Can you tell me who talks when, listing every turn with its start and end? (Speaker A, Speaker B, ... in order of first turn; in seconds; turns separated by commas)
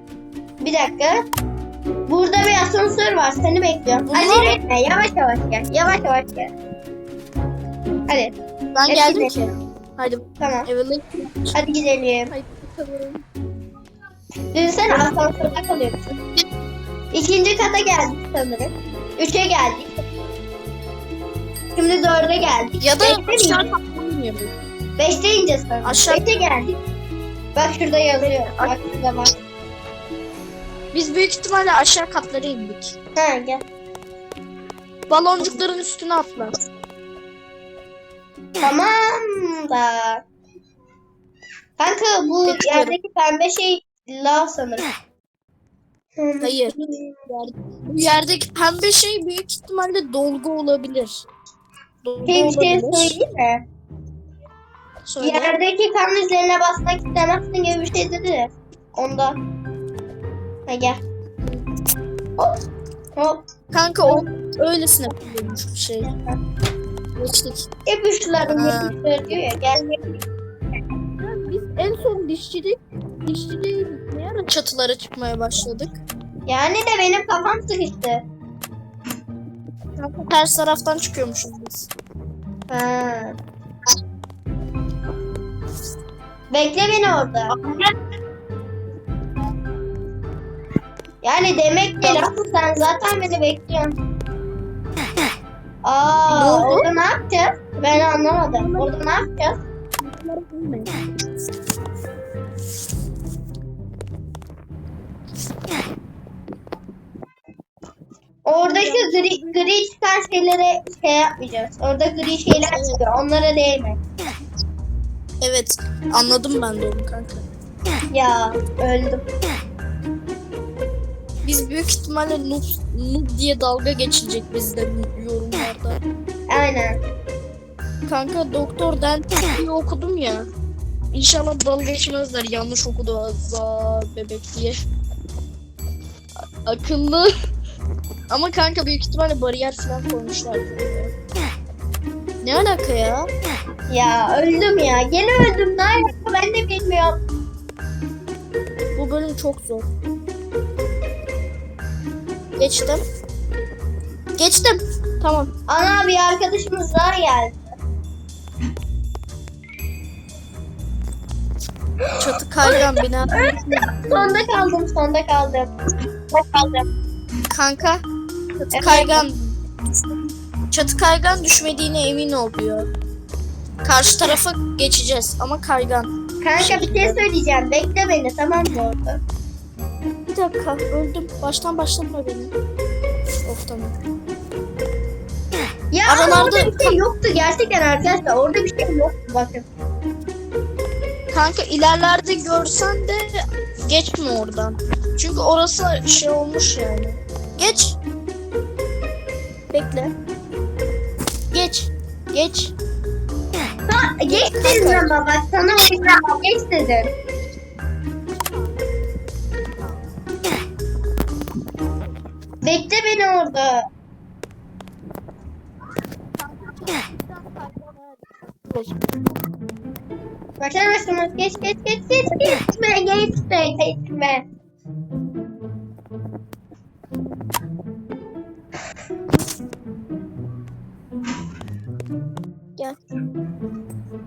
Speaker A: 0.6-1.2, Speaker A: 2.1-6.5, Speaker B: 4.1-4.6, Speaker A: 8.1-8.3, Speaker B: 8.8-11.6, Speaker A: 8.9-9.4, Speaker A: 10.4-10.7, Speaker A: 11.5-12.3, Speaker B: 12.3-13.2, Speaker A: 14.5-16.2, Speaker A: 17.1-19.9, Speaker A: 21.8-23.7, Speaker B: 22.8-24.5, Speaker A: 25.0-26.7, Speaker B: 25.8-26.4, Speaker A: 27.6-29.3, Speaker B: 28.2-28.8, Speaker B: 30.9-33.0, Speaker A: 33.2-33.6, Speaker B: 35.1-36.5, Speaker A: 38.6-40.2, Speaker A: 41.8-44.9, Speaker B: 42.5-43.0, Speaker A: 46.2-47.1, Speaker B: 46.4-51.3, Speaker B: 52.0-53.2, Speaker A: 52.3-53.6, Speaker B: 55.1-55.6, Speaker A: 55.2-59.4, Speaker A: 60.7-61.0, Speaker A: 63.2-63.4, Speaker B: 63.7-66.1, Speaker A: 66.0-66.4, Speaker B: 67.2-67.7, Speaker A: 67.9-70.2, Speaker B: 68.5-69.0, Speaker B: 71.2-76.0, Speaker A: 76.5-78.2, Speaker B: 80.0-81.9, Speaker A: 82.7-83.4, Speaker A: 86.5-87.5, Speaker B: 87.5-88.0, Speaker A: 91.2-94.0, Speaker A: 95.8-99.6, Speaker B: 96.4-96.9, Speaker B: 98.3-99.2, Speaker B: 100.0-101.0, Speaker A: 108.5-114.0, Speaker B: 108.6-109.6, Speaker B: 112.7-113.0, Speaker B: 115.4-117.5, Speaker A: 118.1-119.2, Speaker B: 121.4-126.0, Speaker A: 126.5-127.0, Speaker B: 128.1-130.5, Speaker B: 131.1-134.8, Speaker B: 136.7-137.3, Speaker B: 138.3-141.1, Speaker B: 142.4-143.3, Speaker A: 143.9-147.2, Speaker B: 148.9-149.9, Speaker B: 152.6-153.0, Speaker B: 154.4-155.5, Speaker A: 155.7-157.7, Speaker A: 162.1-165.7, Speaker B: 162.2-164.3, Speaker A: 166.3-166.9, Speaker B: 167.5-168.0, Speaker B: 168.6-169.5, Speaker A: 168.7-169.2, Speaker B: 170.7-172.9, Speaker B: 173.8-177.2, Speaker A: 176.4-179.2, Speaker B: 180.3-182.5, Speaker B: 183.5-183.9, Speaker A: 185.9-189.7, Speaker B: 186.1-187.0, Speaker B: 191.3-198.0, Speaker B: 199.7-200.1, Speaker B: 201.5-202.7, Speaker A: 203.9-207.1, Speaker B: 204.3-205.2, Speaker B: 208.3-208.7, Speaker A: 212.6-213.9, Speaker B: 216.4-219.1, Speaker A: 220.6-224.5